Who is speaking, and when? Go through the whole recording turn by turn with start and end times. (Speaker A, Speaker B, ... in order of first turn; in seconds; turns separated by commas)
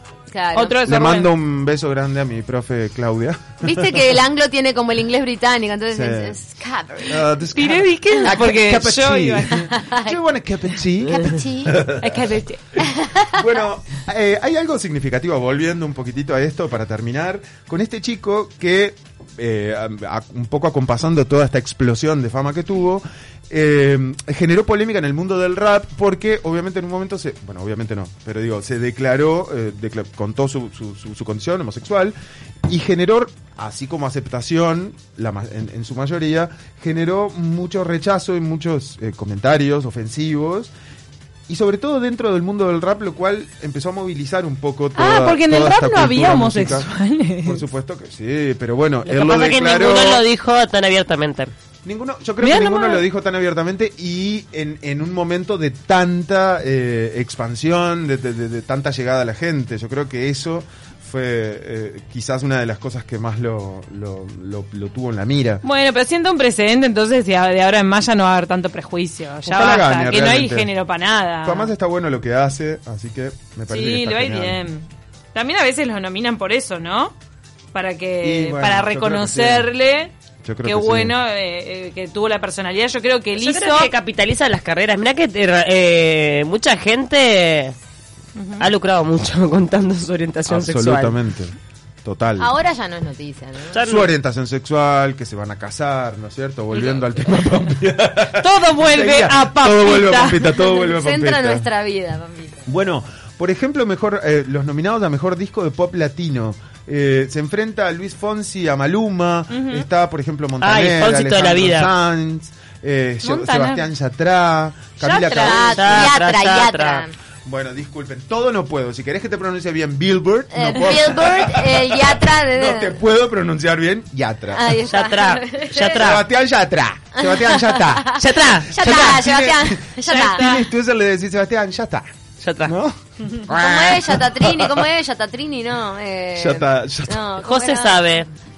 Speaker A: 0.3-0.8, Speaker B: 0.5-1.3, Speaker C: 0.8-4.1, Speaker A: 3.6-7.2, Speaker C: 5.9-6.4, Speaker C: 7.0-12.0, Speaker B: 7.5-9.6, Speaker A: 9.6-10.2, Speaker A: 11.1-11.8, Speaker B: 11.9-12.7, Speaker A: 12.8-13.3, Speaker C: 13.2-32.1, Speaker C: 32.7-40.7, Speaker C: 41.5-46.9, Speaker B: 44.9-47.6, Speaker C: 47.4-50.2, Speaker D: 49.0-51.5, Speaker C: 51.8-65.6, Speaker B: 52.4-53.0, Speaker B: 65.6-71.7, Speaker C: 69.4-70.7, Speaker C: 71.4-74.6, Speaker B: 73.7-77.1, Speaker B: 77.7-80.1, Speaker C: 78.2-79.7, Speaker C: 80.4-81.1, Speaker B: 80.6-83.9, Speaker D: 83.3-87.8, Speaker D: 88.6-91.2, Speaker C: 90.5-92.5, Speaker A: 92.4-93.8, Speaker D: 93.7-94.1, Speaker C: 93.7-101.7, Speaker D: 96.7-97.0, Speaker B: 98.3-100.8, Speaker A: 100.8-102.6, Speaker C: 102.7-116.2, Speaker B: 109.5-109.8, Speaker D: 110.6-111.9, Speaker B: 113.2-113.9, Speaker B: 115.0-115.7, Speaker A: 115.3-117.1, Speaker D: 115.6-117.0, Speaker C: 117.4-124.8, Speaker A: 120.5-123.0, Speaker A: 124.5-126.2, Speaker D: 124.9-126.2, Speaker C: 125.9-128.1, Speaker A: 127.2-130.4, Speaker D: 128.2-129.0, Speaker C: 128.7-132.1, Speaker D: 130.1-130.6, Speaker D: 132.4-132.7, Speaker C: 132.6-134.3, Speaker A: 133.5-138.2, Speaker C: 136.3-137.2, Speaker D: 137.4-138.3